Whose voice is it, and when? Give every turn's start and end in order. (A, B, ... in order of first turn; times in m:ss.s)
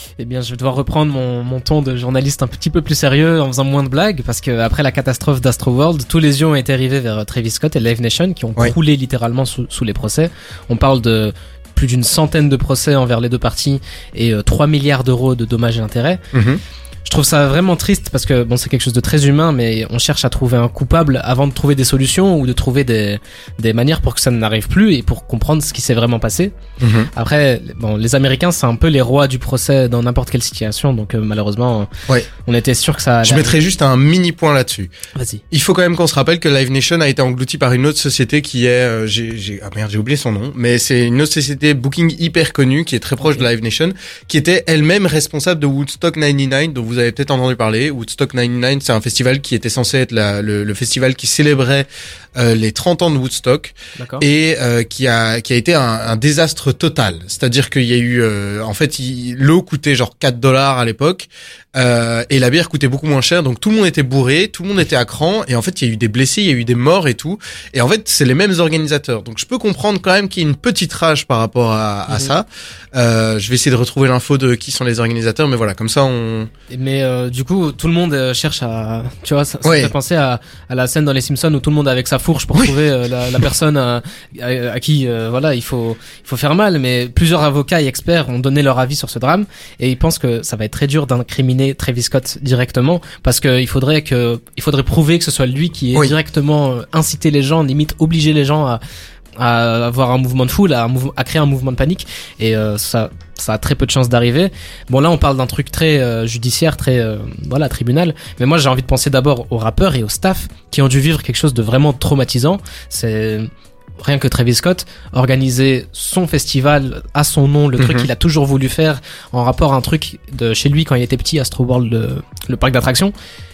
0:00.2-0:16.2 A
0:16.3-0:16.6 B
0:17.0-0:26.5 A
0:26.8-0:27.1 B
0:27.1-0:31.9 A
0:32.4-0:33.6 A
0:33.2-0:34.9 B
0:35.1-0:35.4 A
0:35.5-1:16.5 B
0:54.0-0:54.2 A
1:12.1-1:12.3 A
1:16.7-1:38.8 A
1:19.6-1:19.9 B
1:39.4-2:03.1 A
1:57.8-1:58.1 B